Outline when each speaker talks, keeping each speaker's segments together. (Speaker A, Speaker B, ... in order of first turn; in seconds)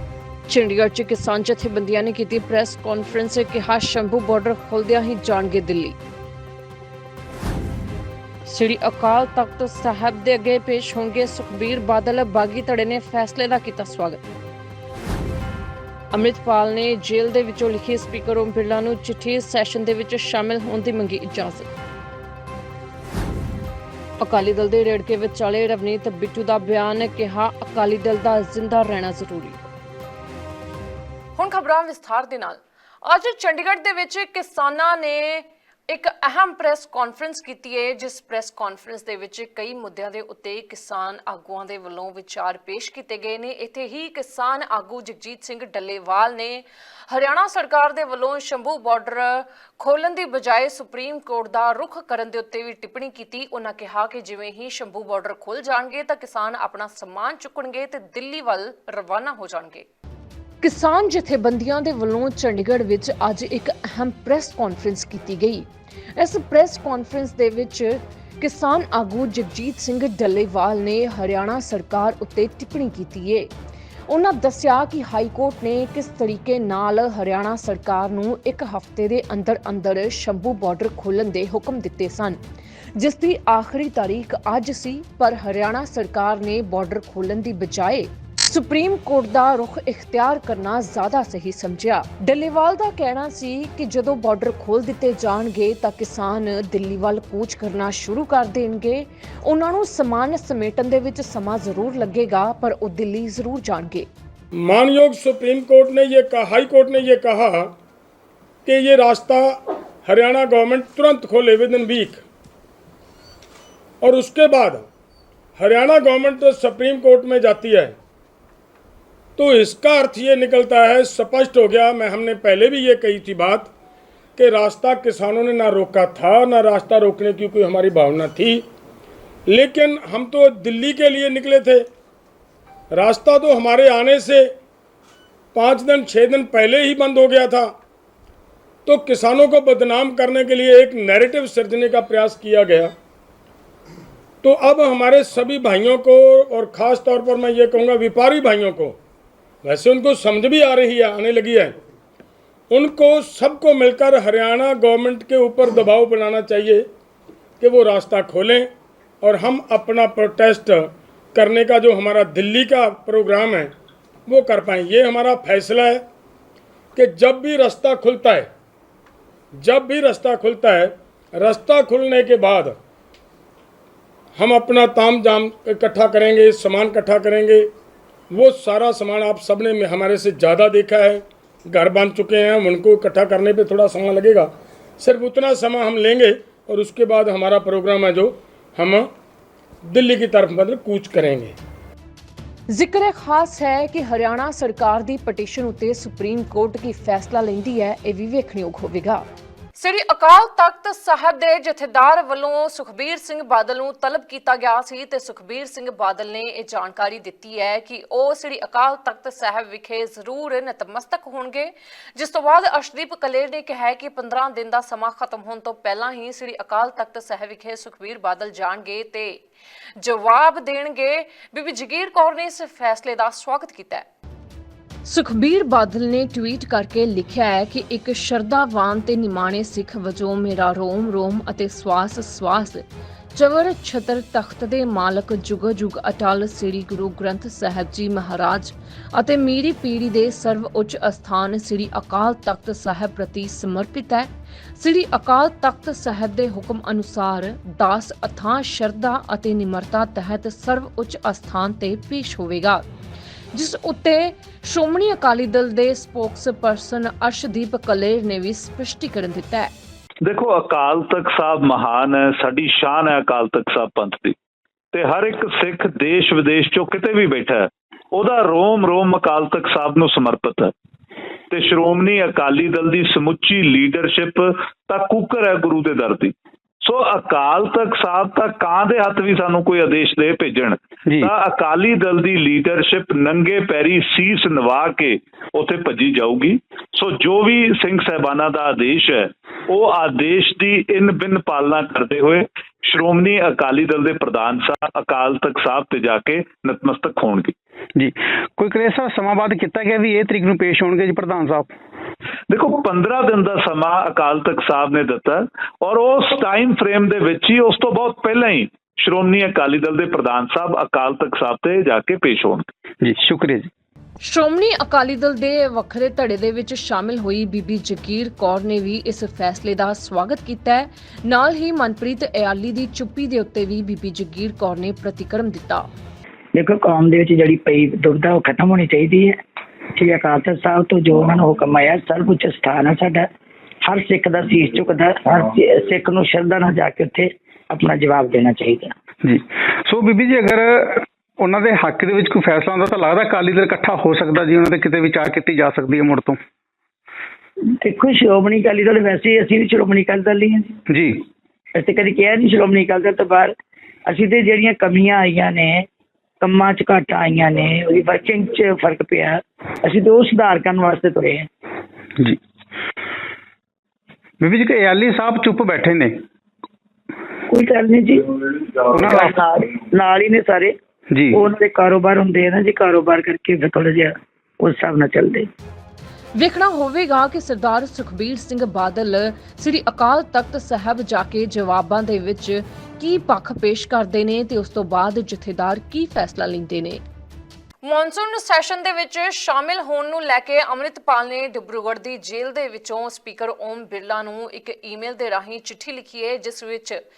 Speaker A: 0.5-6.0, 8.5-14.2, 16.1-21.7, 24.2-29.6, 31.4-59.9, 60.6-73.5, 74.1-82.4, 83.0-104.1, 192.7-219.4, 220.0-224.1, 225.1-252.9, 253.5-259.7, 314.2-325.9, 376.4-387.0, 387.8-397.0
Speaker B: 104.6-107.8, 108.7-112.2, 114.0-114.8, 115.6-118.0, 119.4-123.7, 124.4-128.7, 129.5-131.9, 132.9-134.5, 135.5-137.7, 138.8-142.9, 144.4-149.0, 149.6-151.8, 152.7-156.9, 157.6-158.7, 159.2-163.7, 164.3-166.1, 166.9-168.5, 169.6-172.8, 174.4-177.7, 178.3-189.1, 189.8-191.6
Speaker C: 260.2-264.4, 264.9-270.7, 271.5-297.5, 302.5-312.7
Speaker D: 298.0-301.7, 313.0-313.7, 339.2-346.4, 350.9-351.2, 364.4-366.2, 368.9-369.3
Speaker E: 326.6-329.4, 329.9-333.3, 333.8-338.9, 347.8-350.8, 351.8-353.5, 354.1-355.9, 356.4-361.5, 367.5-370.8, 371.3-375.5